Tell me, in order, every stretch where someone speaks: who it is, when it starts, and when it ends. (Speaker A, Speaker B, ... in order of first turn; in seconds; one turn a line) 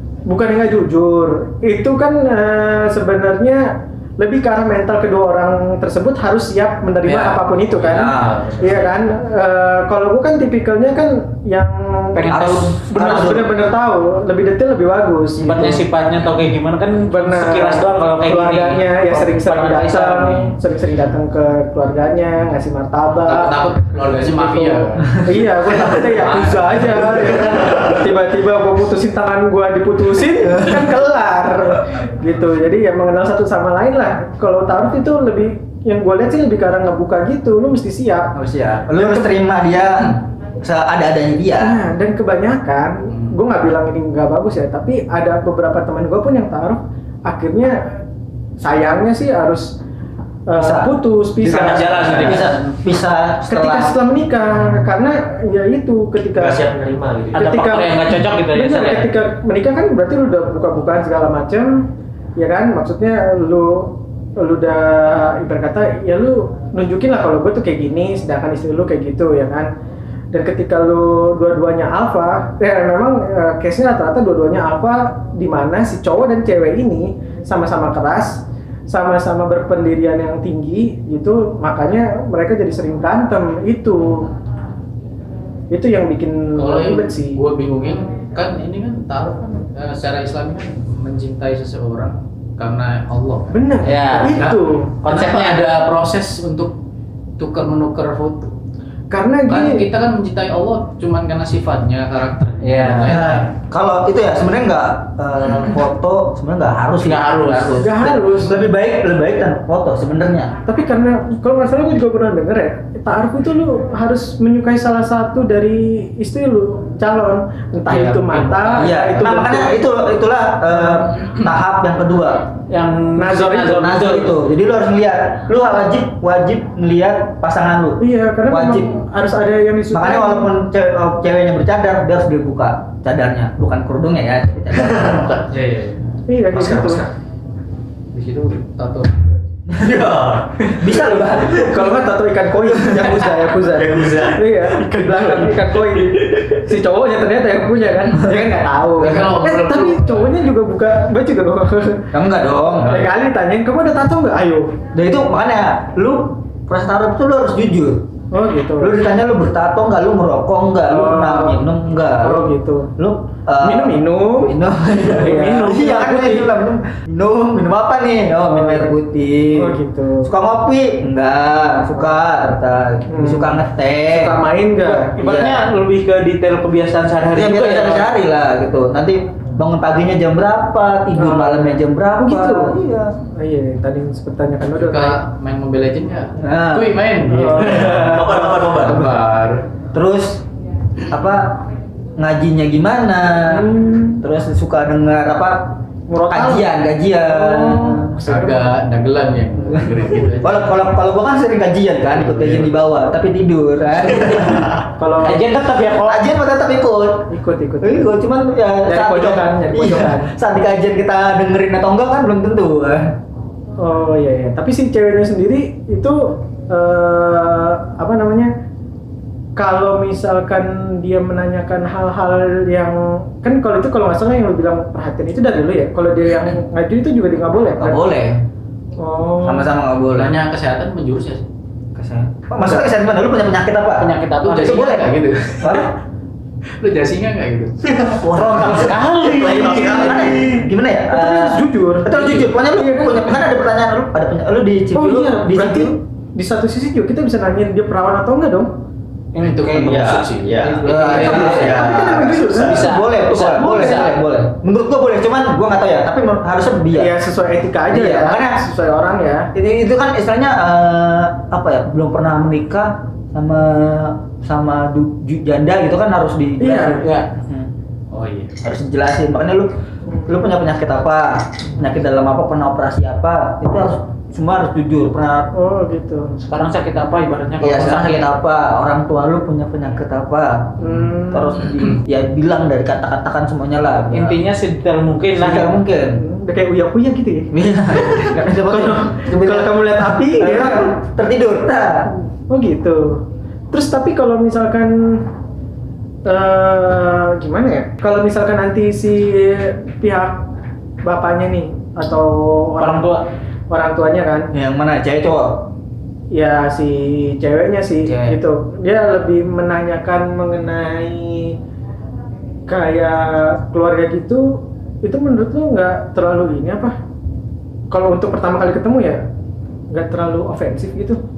Speaker A: 0.3-12.3
Speaker B: 7.0-8.9
Speaker C: 7.9-8.4
Speaker D: 12.1-13.4
Speaker C: 12.2-13.5
Speaker A: 12.9-15.8
Speaker D: 15.4-20.5
Speaker A: 17.1-23.6
Speaker B: 23.2-25.2
Speaker A: 24.1-38.4
Speaker B: 25.9-27.1
Speaker C: 38.3-41.8
Speaker A: 38.9-39.4
Speaker A: 41.6-48.0
Speaker B: 43.1-43.4
Speaker A: 48.6-49.8
Speaker A: 50.5-52.5
Speaker C: 50.6-51.0
Speaker D: 51.4-52.6
Speaker C: 51.9-53.9
Speaker A: 53.5-56.7
Speaker E: 56.3-57.4
Speaker A: 57.3-61.9
Speaker D: 57.4-59.1
Speaker A: 62.4-69.7
Speaker A: 70.3-84.3
Speaker A: 85.7-87.4
Speaker B: 86.5-96.8
Speaker A: 93.5-94.9
Speaker D: 93.8-94.5
Speaker D: 95.0-95.6
Speaker B: 97.4-98.5
Speaker A: 99.1-99.9
Speaker B: 99.5-103.5
Speaker D: 102.6-103.2
Speaker C: 103.1-110.6
Speaker D: 107.0-107.9
Speaker A: 107.8-108.7
Speaker A: 110.7-119.8
Speaker B: 117.9-119.0
Speaker C: 118.7-122.5
Speaker D: 122.7-124.4
Speaker A: 123.1-124.0
Speaker C: 123.7-129.0
Speaker A: 128.0-130.5
Speaker C: 129.9-135.3
Speaker E: 134.9-135.2
Speaker B: 135.3-136.1
Speaker A: 136.3-137.1
Speaker E: 136.5-137.1
Speaker B: 138.1-139.6
Speaker E: 139.8-140.9
Speaker C: 140.8-141.7
Speaker A: 141.6-152.1
Speaker E: 143.7-144.5
Speaker B: 149.0-150.4
Speaker C: 152.1-153.0
Speaker B: 152.8-153.1
Speaker A: 152.8-154.8
Speaker C: 154.9-158.1
Speaker A: 158.3-158.9
Speaker C: 158.8-174.4
Speaker A: 160.8-161.6
Speaker A: 162.2-162.9
Speaker A: 163.6-164.5
Speaker D: 165.1-166.5
Speaker A: 165.2-165.6
Speaker A: 168.3-168.9
Speaker A: 169.6-170.3
Speaker A: 173.1-175.1
Speaker D: 174.8-178.1
Speaker C: 175.2-175.7
Speaker C: 177.3-183.2
Speaker A: 181.1-182.8
Speaker A: 183.3-185.2
Speaker B: 184.8-189.6
Speaker C: 186.4-187.1
Speaker A: 187.3-188.6
Speaker E: 187.9-189.1
Speaker C: 189.9-190.4
Speaker C: 191.1-191.6
Speaker C: 192.2-198.5
Speaker A: 193.5-194.2
Speaker A: 196.1-196.7
Speaker A: 197.2-198.6
Speaker B: 198.2-200.7
Speaker C: 199.7-204.8
Speaker B: 202.2-202.7
Speaker A: 205.0-205.4
Speaker D: 205.2-206.2
Speaker C: 206.0-213.1
Speaker A: 207.3-208.1
Speaker A: 208.8-210.3
Speaker A: 213.8-218.5
Speaker A: 219.6-228.1
Speaker C: 227.8-228.4
Speaker A: 229.0-229.7
Speaker C: 229.4-230.4
Speaker B: 230.1-231.5
Speaker C: 231.9-235.9
Speaker D: 234.0-234.8
Speaker B: 234.2-235.9
Speaker B: 236.8-237.8
Speaker E: 237.9-238.2
Speaker C: 238.1-239.0
Speaker D: 238.4-240.6
Speaker E: 238.8-240.5
Speaker C: 239.6-245.9
Speaker A: 241.1-243.3
Speaker A: 244.9-248.7
Speaker D: 249.3-251.6
Speaker B: 249.4-251.8
Speaker E: 249.8-252.9
Speaker C: 250.8-257.1
Speaker A: 251.3-254.1
Speaker D: 253.0-254.0
Speaker B: 253.4-254.1
Speaker A: 256.9-259.5
Speaker C: 257.9-258.6
Speaker C: 259.5-267.7
Speaker A: 266.6-267.1
Speaker D: 267.0-267.3
Speaker B: 268.1-268.6
Speaker C: 268.6-269.7
Speaker A: 270.1-270.4
Speaker C: 270.3-275.5
Speaker A: 275.5-276.4
Speaker D: 276.4-278.4
Speaker C: 277.6-284.4
Speaker A: 280.8-281.6
Speaker D: 284.1-285.7
Speaker C: 285.4-286.2
Speaker A: 286.1-290.9
Speaker C: 287.5-292.1
Speaker A: 292.5-295.3
Speaker A: 296.2-300.4
Speaker A: 301.0-303.2
Speaker D: 302.8-303.2
Speaker A: 303.7-304.5
Speaker C: 304.5-305.7
Speaker A: 306.3-311.6
Speaker C: 308.0-308.4
Speaker A: 312.7-316.9
Speaker A: 317.9-319.2
Speaker A: 319.9-321.2